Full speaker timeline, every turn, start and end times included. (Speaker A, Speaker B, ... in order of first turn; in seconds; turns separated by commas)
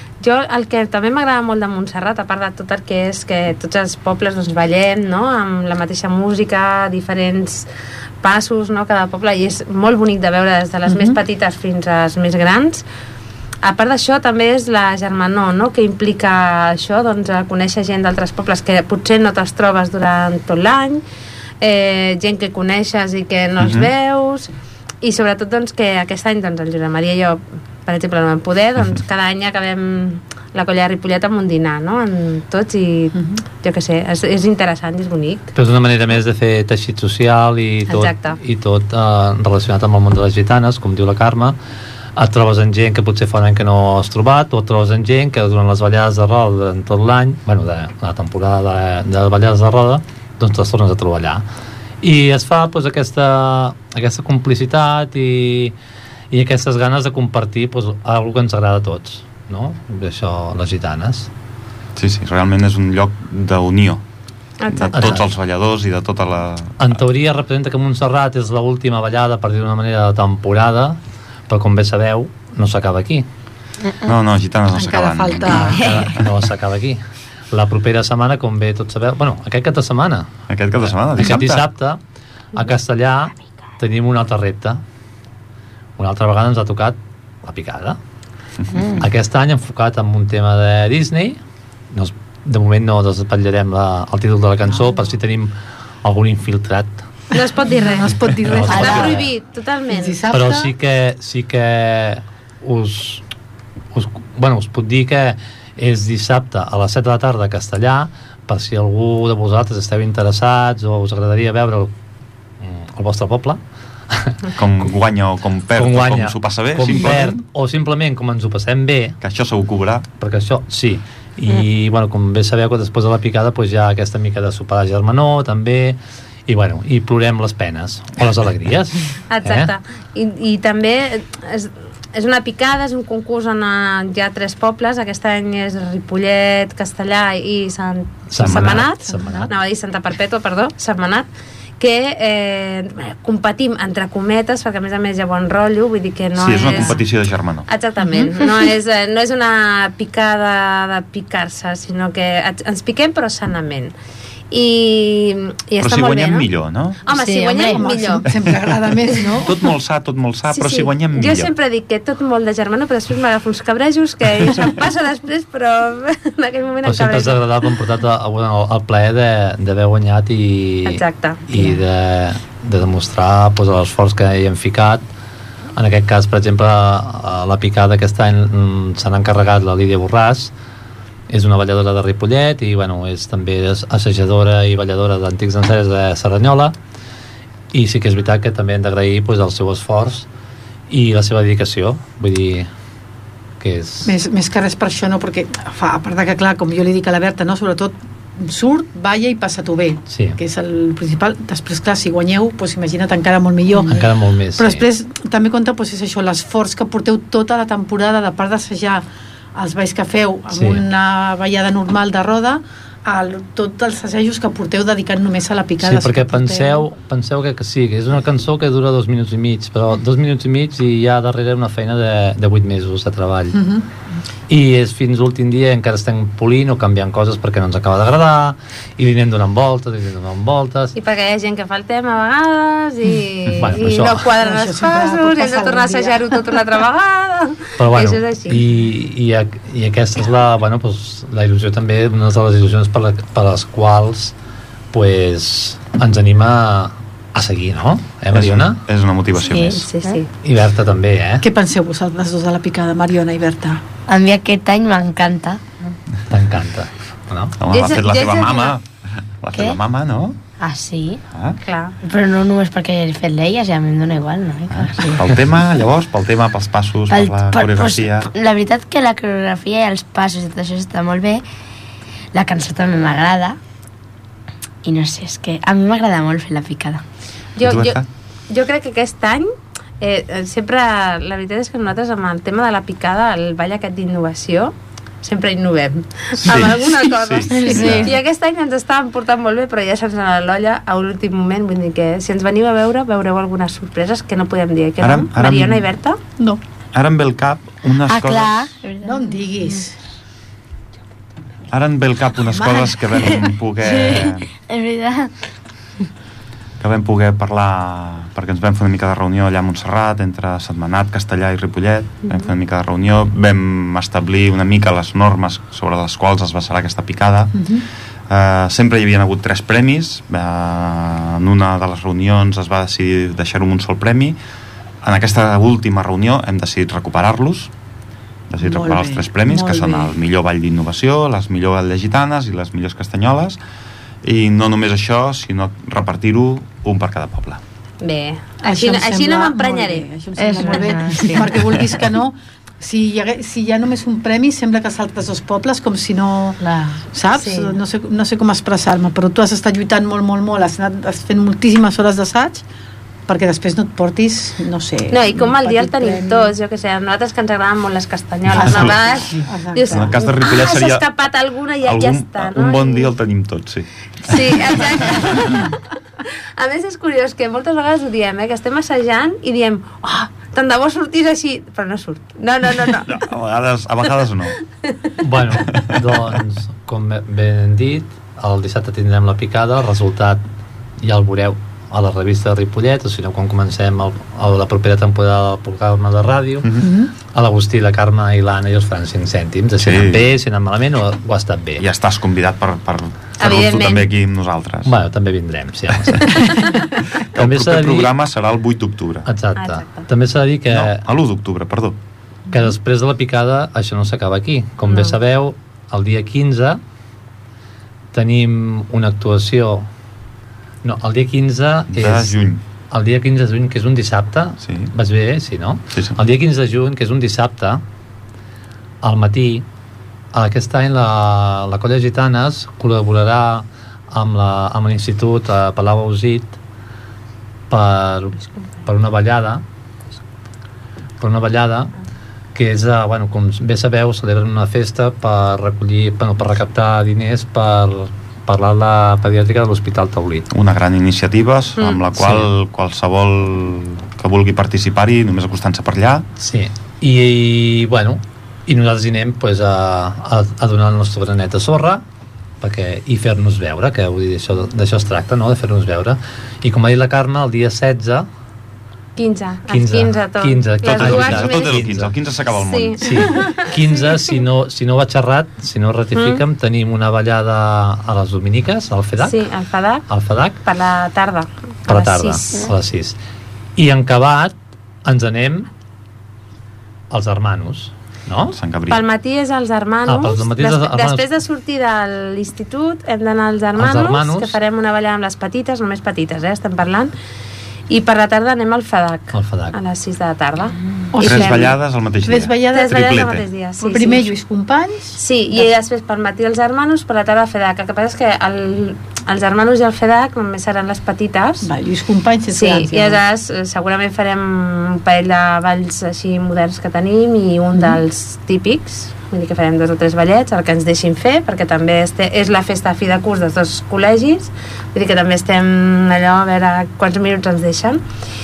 Speaker A: 0.2-7.7, Speaker A: 8.2-12.8, Speaker B: 10.9-11.2, Speaker A: 13.6-21.0, Speaker A: 21.6-24.5, Speaker C: 23.6-23.9, Speaker A: 25.0-35.5, Speaker B: 33.1-33.4, Speaker D: 35.5-41.5, Speaker A: 37.9-38.4, Speaker D: 42.1-51.4, Speaker D: 52.0-55.7, Speaker D: 56.3-61.3, Speaker C: 62.0-64.0, Speaker A: 64.6-65.1, Speaker C: 64.7-66.9, Speaker D: 64.9-65.2, Speaker D: 66.8-73.2, Speaker C: 74.0-76.3, Speaker B: 74.7-76.0, Speaker D: 75.5-80.3, Speaker C: 80.5-81.7, Speaker D: 80.8-82.0, Speaker D: 82.5-84.8, Speaker D: 86.0-88.0, Speaker E: 88.7-89.0, Speaker D: 89.0-91.4, Speaker D: 91.9-97.0, Speaker A: 97.3-100.2, Speaker B: 97.3-99.2, Speaker D: 98.4-99.3, Speaker E: 98.7-99.0, Speaker B: 99.9-100.7, Speaker D: 100.3-103.2, Speaker D: 103.9-111.9, Speaker D: 112.6-114.5, Speaker C: 114.5-117.4, Speaker D: 115.7-119.2, Speaker C: 119.2-120.1, Speaker D: 120.2-129.7, Speaker A: 129.3-141.3, Speaker D: 138.3-139.5, Speaker C: 138.4-138.8, Speaker B: 139.1-139.5, Speaker A: 141.8-147.0, Speaker C: 146.3-147.7, Speaker A: 147.7-153.9, Speaker A: 154.5-156.5, Speaker C: 155.8-157.0, Speaker A: 157.1-158.3, Speaker E: 157.1-157.8, Speaker B: 157.7-159.6, Speaker C: 159.3-161.5, Speaker A: 160.5-167.7, Speaker D: 166.8-175.1, Speaker A: 170.8-171.4, Speaker D: 175.8-180.5, Speaker D: 181.3-186.7, Speaker D: 187.7-190.3, Speaker D: 190.9-192.7, Speaker D: 193.6-194.1, Speaker B: 194.1-216.9, Speaker D: 200.1-200.4, Speaker D: 203.8-204.8, Speaker D: 210.5-210.8, Speaker D: 215.8-223.6, Speaker B: 223.5-223.8, Speaker D: 224.5-230.9, Speaker A: 230.9-238.6, Speaker D: 233.6-234.2, Speaker B: 234.4-236.5, Speaker D: 237.8-244.3, Speaker D: 244.9-248.8, Speaker C: 248.3-249.9, Speaker E: 249.4-250.2, Speaker A: 249.5-250.3, Speaker D: 250.4-251.4, Speaker B: 251.4-253.8, Speaker E: 254.1-255.6, Speaker D: 256.3-257.6, Speaker C: 257.6-258.9, Speaker A: 257.7-258.7, Speaker C: 259.4-260.4, Speaker E: 259.5-259.8, Speaker E: 260.6-261.2, Speaker C: 261.3-261.6, Speaker A: 261.6-262.0, Speaker E: 262.0-265.3, Speaker C: 264.7-268.3, Speaker E: 267.1-271.4, Speaker E: 272.3-273.6, Speaker E: 274.8-277.0, Speaker A: 277.6-296.2, Speaker C: 277.6-278.1, Speaker C: 286.4-288.1, Speaker E: 287.6-288.0, Speaker C: 295.0-295.9, Speaker C: 296.9-298.7, Speaker E: 298.1-299.8, Speaker B: 299.0-299.9, Speaker C: 301.7-304.5, Speaker E: 303.4-305.3, Speaker C: 306.8-317.8, Speaker B: 317.5-317.8, Speaker C: 318.3-324.4, Speaker C: 325.0-327.7, Speaker C: 328.5-333.6, Speaker B: 328.6-330.1, Speaker C: 334.2-337.6, Speaker A: 338.0-340.1, Speaker B: 338.6-346.6, Speaker E: 340.4-341.5, Speaker A: 340.6-340.9, Speaker E: 346.6-347.0, Speaker B: 347.1-352.6, Speaker A: 347.3-347.8, Speaker B: 353.3-356.5, Speaker A: 355.1-363.1, Speaker C: 358.4-359.0, Speaker B: 358.6-360.1, Speaker C: 359.9-361.0, Speaker C: 361.8-365.4, Speaker A: 364.2-365.8, Speaker A: 366.6-373.1, Speaker C: 373.0-374.6, Speaker D: 375.2-380.4, Speaker C: 375.7-376.3, Speaker D: 381.0-386.8, Speaker C: 386.6-386.9, Speaker B: 386.8-387.1, Speaker D: 387.3-391.8, Speaker C: 389.8-390.3, Speaker C: 391.8-394.9, Speaker A: 393.4-394.1, Speaker D: 394.8-396.7, Speaker C: 396.1-396.4, Speaker C: 397.1-399.3, Speaker D: 397.3-398.1, Speaker D: 399.2-401.0, Speaker A: 399.5-400.1, Speaker C: 400.7-402.0, Speaker D: 402.5-406.8, Speaker A: 404.9-405.1, Speaker D: 408.1-409.9, Speaker D: 410.8-412.4, Speaker C: 411.9-412.6, Speaker D: 412.9-417.8, Speaker C: 414.6-414.9, Speaker D: 419.0-419.6, Speaker D: 420.3-426.6, Speaker D: 427.7-429.6, Speaker D: 431.2-431.9, Speaker D: 432.5-440.5, Speaker C: 440.5-446.3, Speaker A: 441.8-442.0, Speaker D: 442.1-442.5, Speaker D: 446.4-452.0, Speaker D: 452.6-458.3, Speaker A: 459.1-461.8, Speaker D: 459.7-462.1, Speaker C: 460.8-463.3, Speaker A: 462.5-464.2, Speaker D: 463.0-469.4, Speaker A: 466.1-466.4, Speaker A: 469.2-470.0, Speaker D: 470.1-470.6, Speaker A: 470.6-472.7, Speaker D: 471.9-473.2, Speaker D: 473.8-475.7, Speaker D: 477.1-478.6, Speaker C: 478.5-479.0, Speaker A: 478.9-487.1, Speaker D: 480.1-481.2, Speaker D: 483.8-484.6, Speaker A: 487.9-491.7, Speaker D: 489.3-489.8, Speaker B: 491.1-491.7, Speaker C: 491.2-493.4, Speaker B: 492.2-493.0, Speaker A: 492.7-494.3, Speaker B: 493.8-495.7, Speaker A: 495.2-501.7, Speaker B: 501.6-503.2, Speaker A: 502.5-518.0, Speaker B: 507.7-508.0